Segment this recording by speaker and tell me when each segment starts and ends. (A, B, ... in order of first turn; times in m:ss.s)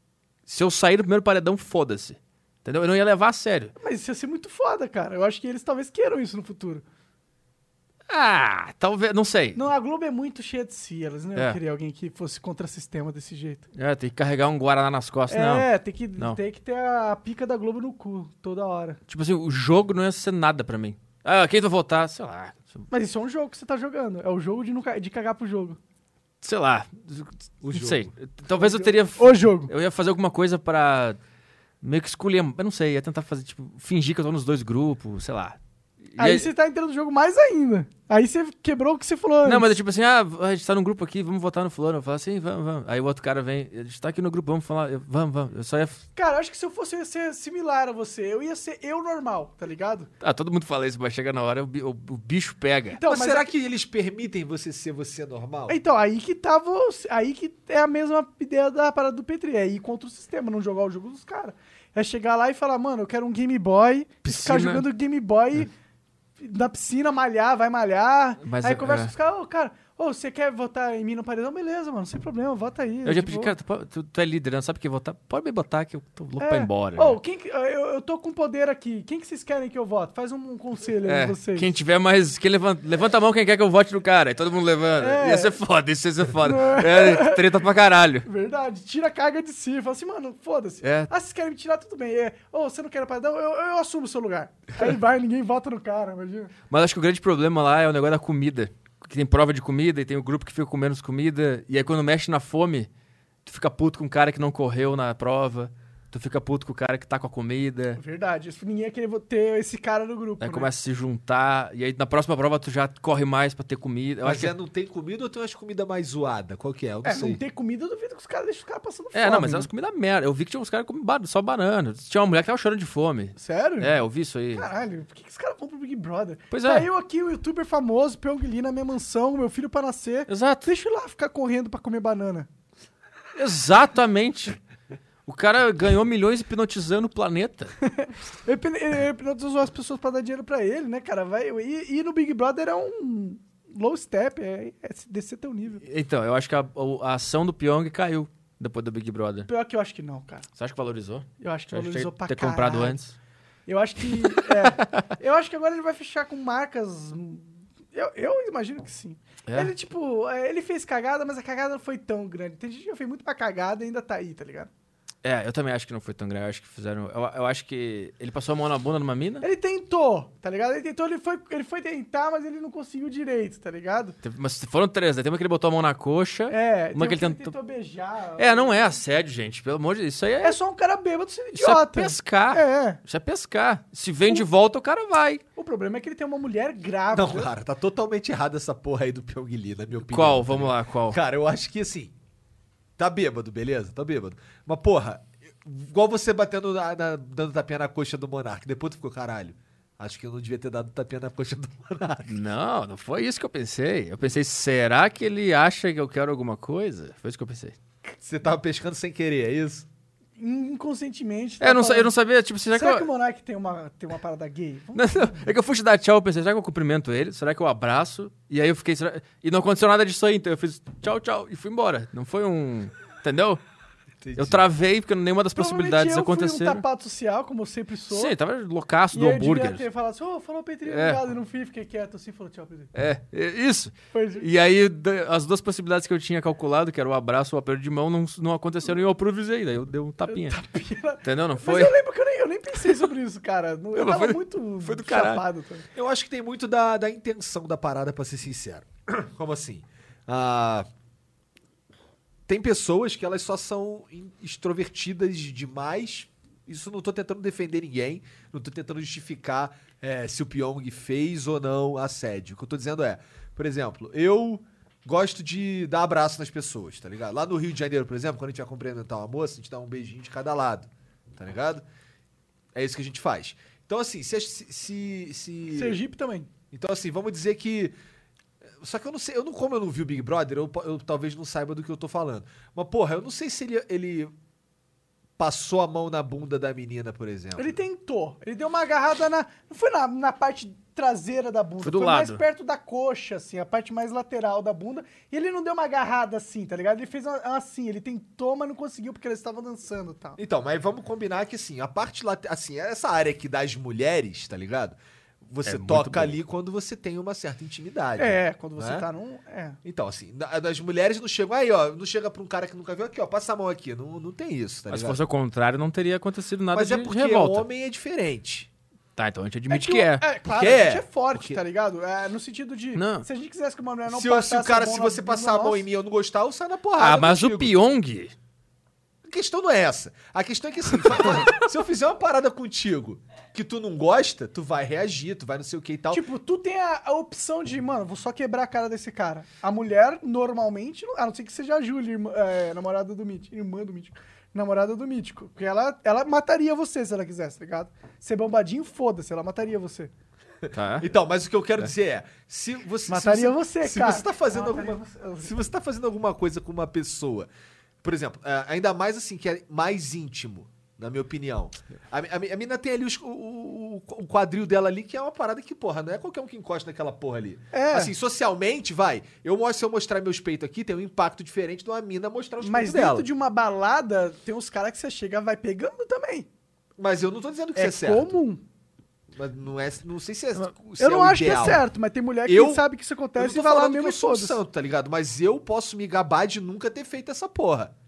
0:00.5-0:03.7 A
0:03.8-0:06.8 B
0:08.1-0:09.6 A
0:09.6-0:13.7 B
0:13.8-0:16.4 A
0:15.3-0:19.0 B
0:19.1-0:22.9 A
0:22.9-0:25.8 B
0:26.4-0:31.2 A
0:27.6-0:28.1 C
0:28.6-0:29.7 B
0:31.8-0:35.6 A
0:36.1-0:36.5 A
0:36.2-0:39.7 B
0:39.4-0:46.1 A
0:46.2-0:50.1 B
0:50.2-0:53.0 A
0:52.9-0:53.5 B
0:53.0-0:55.8 C
0:55.7-1:05.7 B
1:04.2-1:04.9 A
1:06.4-1:13.5 B
1:08.4-1:09.1 A
1:13.0-1:17.2 A
1:16.4-1:21.7 B
1:21.0-1:28.3 A
1:25.0-1:25.6 B
1:26.4-1:27.5 B
1:28.2-1:36.5 B
1:30.8-1:31.1 A
1:36.7-1:42.9 A
1:43.4-1:48.0 A
1:48.0-1:50.7 B
1:50.4-1:54.5 A
1:54.2-1:57.4 C
1:57.0-1:59.7 B
1:59.1-2:04.7 A
2:03.4-2:03.9 B
2:04.6-2:12.5 B
2:06.5-2:06.9 A
2:10.3-2:10.7 A
2:13.4-2:14.6 A
2:15.3-2:17.7 A
2:17.8-2:25.8 B
2:25.8-2:29.5 A
2:29.5-2:30.5 B
2:30.6-2:33.2 A
2:31.4-2:33.0 B
2:33.7-2:44.7 B
2:34.4-2:35.0 A
2:39.5-2:39.7 A
2:45.2-2:49.4 A
2:49.4-2:54.2 B
2:54.2-2:57.5 A
2:56.5-2:58.9 B
2:58.4-3:00.6 A
3:00.4-3:03.0 B
3:01.6-3:05.4 A
3:05.6-3:07.5 B
3:07.1-3:12.1 C
3:10.1-3:11.2 A
3:13.0-3:22.4 C
3:22.3-3:27.8 A
3:28.2-3:29.9 C
3:30.4-3:32.1 B
3:31.6-3:33.1 A
3:32.7-3:35.4 B
3:35.0-3:43.6 A
3:44.2-3:44.6 C
3:44.4-3:46.8 A
3:45.5-3:48.4 B
3:48.1-3:49.8 A
3:49.1-3:52.9 B
3:50.8-3:51.2 A
3:52.9-4:00.6 A
3:54.1-3:54.5 B
4:00.3-4:05.9 B
4:01.2-4:02.0 A
4:04.0-4:05.4 A
4:06.0-4:10.9 C
4:12.5-4:31.8 C
4:32.7-4:36.0 C
4:35.7-4:36.5 B
4:36.7-4:38.0 C
4:38.8-4:44.3 C
4:45.4-4:47.8 C
4:47.6-5:00.4 B
4:51.8-4:52.4 A
5:00.4-5:09.1 C
5:05.6-5:06.3 A
5:08.2-5:09.8 B
5:09.8-5:15.2 C
5:14.9-5:17.7 A
5:16.7-5:18.7 C
5:19.2-5:20.2 A
5:19.7-5:25.8 B
5:20.4-5:21.6 C
5:23.0-5:23.3 A
5:24.1-5:27.8 C
5:27.0-5:28.3 A
5:29.3-5:36.3 C
5:36.1-5:50.1 B
5:50.6-5:57.5 C
5:50.7-5:51.1 A
5:53.1-5:55.5 B
5:58.0-6:13.3 C
6:07.7-6:08.1 B
6:12.6-6:16.5 B
6:17.0-6:18.4 C
6:17.8-6:18.6 B
6:19.4-6:21.8 C
6:21.0-6:24.6 B
6:22.5-6:22.8 C
6:23.4-6:27.9 C